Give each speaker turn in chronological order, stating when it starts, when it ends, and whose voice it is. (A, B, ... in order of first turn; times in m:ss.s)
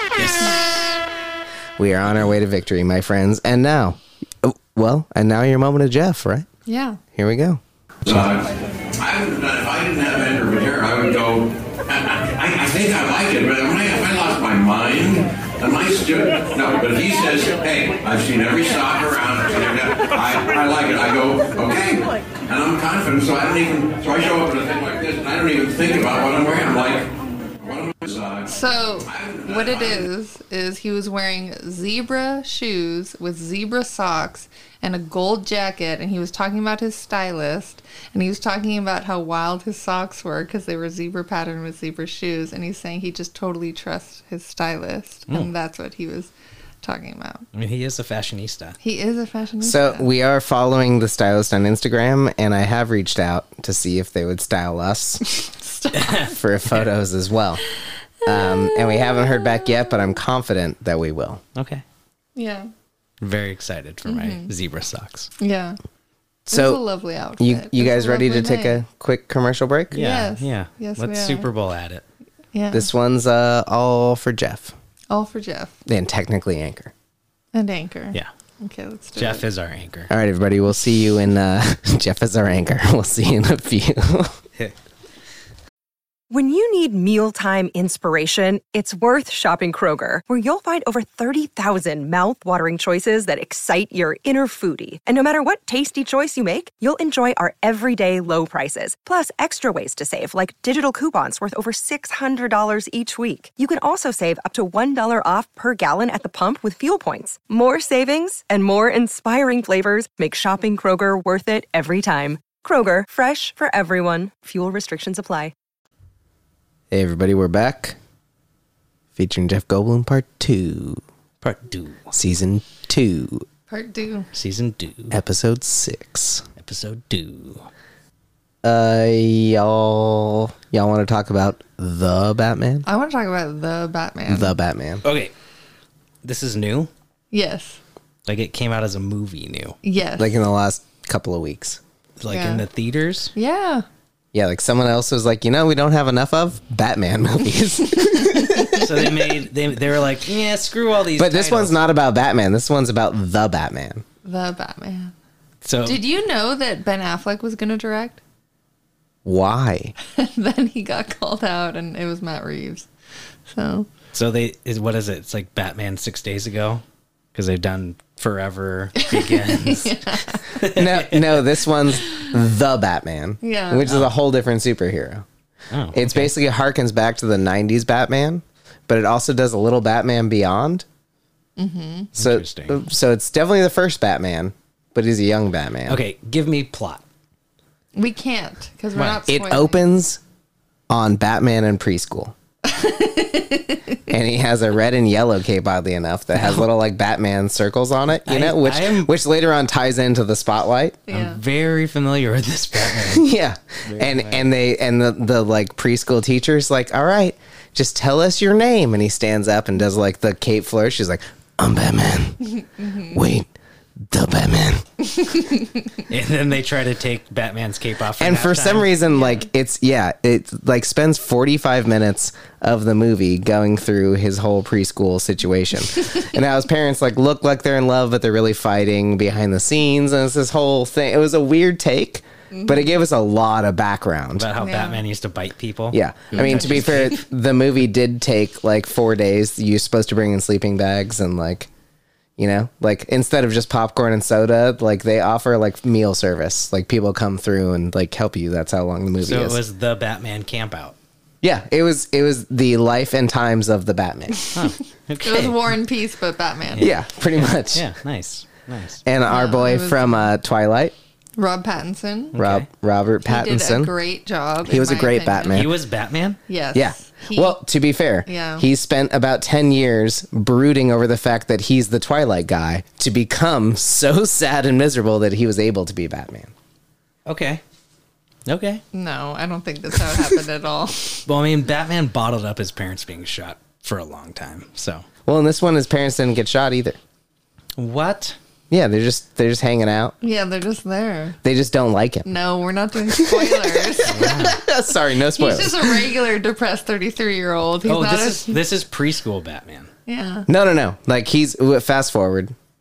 0:00.2-0:01.0 A
0:01.8-0:06.5 B
0:06.7-0:07.0 C
0:07.1-0:08.2 B
0:08.1-0:08.5 D
0:09.0-0:28.5 D
0:28.5-0:46.3 C
0:29.1-0:30.1 D
0:46.8-0:47.4 C
0:47.6-0:48.8 A
0:48.8-0:50.1 C
0:49.6-0:55.2 B
0:55.2-0:56.4 C
0:56.0-0:56.9 A
0:56.1-0:57.6 B
0:58.2-1:00.0 C
0:58.2-1:01.4 B
1:01.6-1:01.8 A
1:02.4-1:02.7 C
1:03.2-1:05.3 A
1:04.0-1:04.5 C
1:05.4-1:05.8 C
1:06.5-1:08.8 C
1:06.5-1:06.8 B
1:07.4-1:10.0 B
1:09.9-1:11.5 C
1:09.9-1:12.0 A
1:12.5-1:12.9 C
1:12.7-1:14.8 B
1:15.1-1:15.7 C
1:15.9-1:16.9 B
1:17.5-1:19.5 C
1:19.2-1:20.1 A
1:20.1-1:24.4 B
1:26.3-1:55.5 E
1:56.9-1:58.0 B
1:59.2-2:01.0 B
2:01.4-2:02.1 A
2:02.1-2:03.5 B
2:03.7-2:04.3 C
2:04.3-2:05.2 A
2:05.1-2:06.5 B
2:06.6-2:07.7 A
2:08.6-2:12.9 B
2:12.9-2:14.6 C
2:14.3-2:15.0 B
2:15.0-2:15.3 A
2:16.2-2:16.9 A
2:17.3-2:17.8 C
2:18.3-2:19.8 A
2:19.8-2:20.4 C
2:20.2-2:21.8 B
2:22.2-2:23.3 A
2:22.3-2:22.6 C
2:23.4-2:23.8 C
2:24.3-2:29.3 B
2:28.1-2:28.8 C
2:28.8-2:31.8 A
2:31.2-2:34.0 B
2:34.2-2:35.1 C
2:35.6-2:36.0 A
2:35.8-2:38.2 C
2:39.2-2:40.0 B
2:40.2-2:42.9 C
2:43.5-2:43.9 C
2:44.1-2:46.8 A
2:47.3-2:51.5 A
2:49.0-2:50.5 C
2:50.6-2:55.3 B
2:53.4-2:53.9 C
2:53.9-2:54.1 A
2:55.7-2:56.3 A
2:55.9-3:00.8 B
3:01.6-3:02.1 C
3:02.2-3:02.8 A
3:02.2-3:06.0 B
3:05.9-3:07.0 A
3:08.0-3:09.8 C
3:09.0-3:09.2 A
3:09.3-3:10.2 B
3:10.9-3:12.3 B
3:12.6-3:14.0 C
3:14.1-3:21.1 B
3:16.4-3:16.6 A
3:18.3-3:19.1 A
3:21.1-3:21.4 C
3:21.1-3:23.3 A
3:22.9-3:32.5 B
3:23.9-3:24.5 A
3:32.6-3:33.2 C
3:33.1-3:33.5 B
3:34.1-3:34.9 B
3:36.1-3:38.9 A
3:38.2-3:54.5 B
3:39.1-3:39.5 C
3:52.5-3:52.8 C
3:54.4-3:57.2 A
3:54.6-3:55.0 C
3:55.9-4:01.7 B
4:02.4-4:09.6 B
4:09.2-4:11.0 A
4:11.4-4:14.5 B
4:14.6-4:15.7 A
4:15.2-4:16.9 C
4:16.8-4:19.0 A
4:16.8-4:17.9 B
4:19.1-4:21.0 B
4:19.3-4:20.3 C
4:21.4-4:22.4 C
4:22.4-4:22.7 A
4:22.4-4:23.9 B
4:23.2-4:25.7 C
4:24.6-4:25.7 B
4:25.5-4:26.4 A
4:26.5-4:27.6 C
4:26.7-4:36.5 B
4:28.3-4:28.7 C
4:37.3-4:37.6 A
4:38.5-4:38.8 A
4:38.9-4:41.2 C
4:41.3-4:45.1 A
4:45.3-4:47.0 B
4:47.8-4:48.4 A
4:48.7-4:50.2 B
4:50.2-4:51.4 C
4:51.4-4:52.3 B
4:52.3-4:54.6 C
4:53.1-4:56.1 B
4:54.1-4:54.6 A
4:55.3-4:58.6 C
4:57.9-4:59.9 A
5:00.1-5:00.5 C
5:00.5-5:02.6 B